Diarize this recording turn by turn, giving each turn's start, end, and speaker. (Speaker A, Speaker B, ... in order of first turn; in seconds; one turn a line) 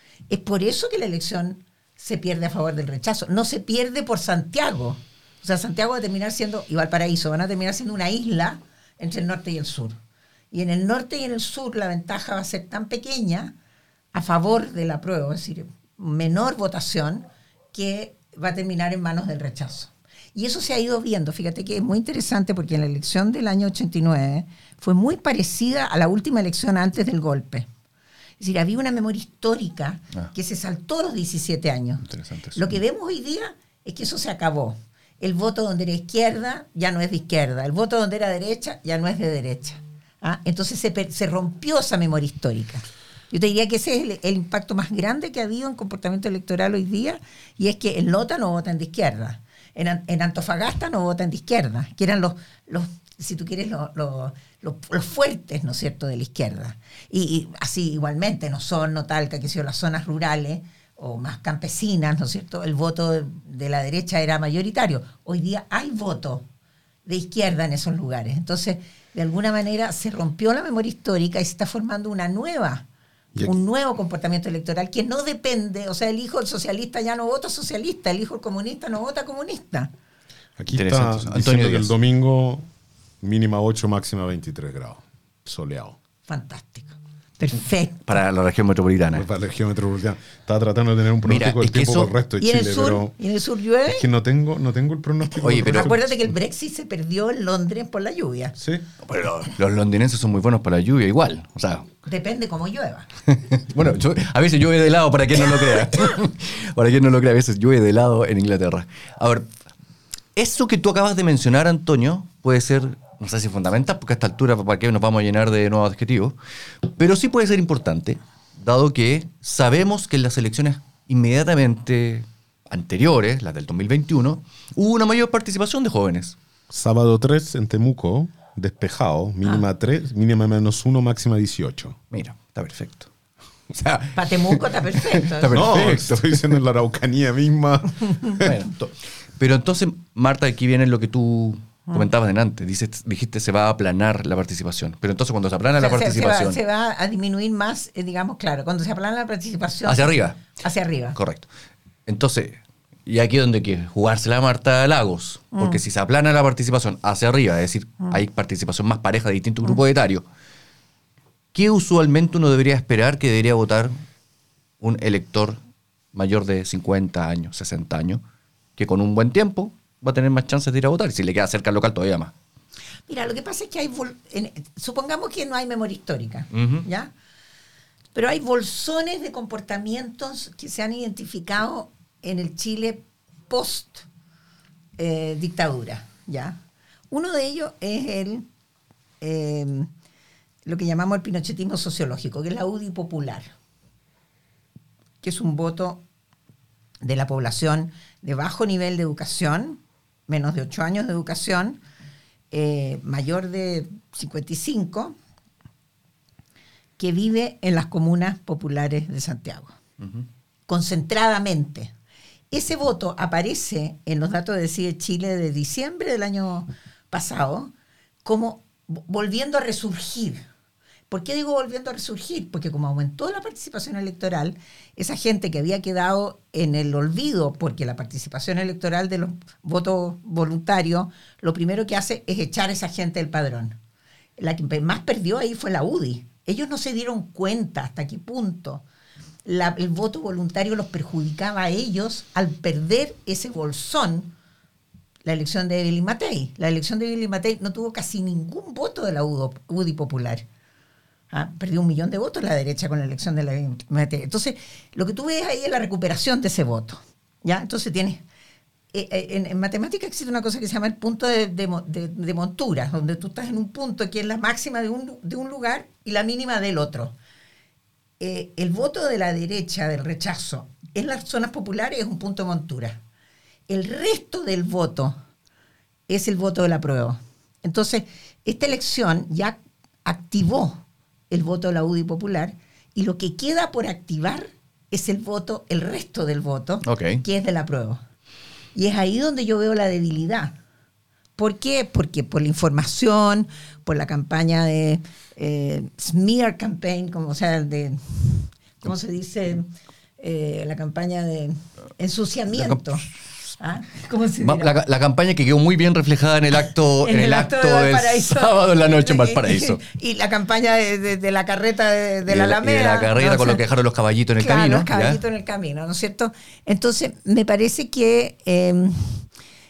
Speaker A: 0.3-10.0
Speaker A: 10.5-13.5
Speaker A: 14.1-27.7
Speaker A: 28.4-66.5
Speaker B: 32.1-32.6
Speaker A: 67.1-72.9
Speaker A: 73.4-79.9
Speaker C: 80.6-82.7
Speaker B: 80.7-81.9
Speaker C: 83.2-86.0
Speaker A: 86.3-88.1
Speaker B: 88.1-89.3
Speaker C: 89.1-93.2
Speaker B: 91.3-92.1
Speaker A: 92.4-94.0
Speaker C: 93.9-96.3
Speaker B: 95.4-96.0
Speaker A: 95.6-98.6
Speaker C: 98.6-98.8
Speaker B: 99.0-101.9
Speaker A: 102.1-103.1
Speaker B: 103.3-109.5
Speaker B: 110.3-126.4
Speaker C: 126.7-132.0
Speaker B: 132.1-133.1
Speaker B: 133.7-136.6
Speaker A: 134.1-135.6
Speaker C: 135.5-138.5
Speaker B: 138.4-146.6
Speaker A: 145.8-151.2
Speaker B: 149.9-150.4
Speaker B: 151.2-151.5
Speaker B: 152.1-160.2
Speaker A: 155.6-155.8
Speaker B: 161.5-163.9
Speaker B: 164.8-165.6
Speaker B: 166.1-168.2
Speaker B: 168.8-172.3
Speaker A: 173.1-177.1
Speaker B: 176.5-176.9
Speaker A: 178.2-184.1
Speaker A: 185.0-186.6
Speaker A: 187.1-188.5
Speaker A: 189.2-189.9
Speaker A: 190.7-193.5
Speaker A: 195.2-196.0
Speaker A: 197.0-201.8
Speaker A: 202.5-205.2
Speaker A: 207.0-209.8
Speaker A: 210.7-211.9
Speaker A: 212.5-217.7
Speaker A: 218.2-220.5
Speaker A: 221.1-233.8
Speaker A: 234.4-238.8
Speaker A: 239.4-244.3
Speaker A: 245.3-250.5
Speaker A: 251.3-258.2
Speaker A: 258.9-267.1
Speaker A: 268.2-273.0
Speaker A: 273.7-275.2
Speaker A: 276.1-288.0
Speaker B: 286.9-287.2
Speaker A: 288.8-290.6
Speaker A: 291.4-299.7
Speaker A: 300.2-303.0
Speaker B: 302.5-303.0
Speaker A: 303.6-304.8
Speaker B: 304.4-309.8
Speaker A: 307.0-313.6
Speaker B: 312.3-315.2
Speaker A: 314.4-319.3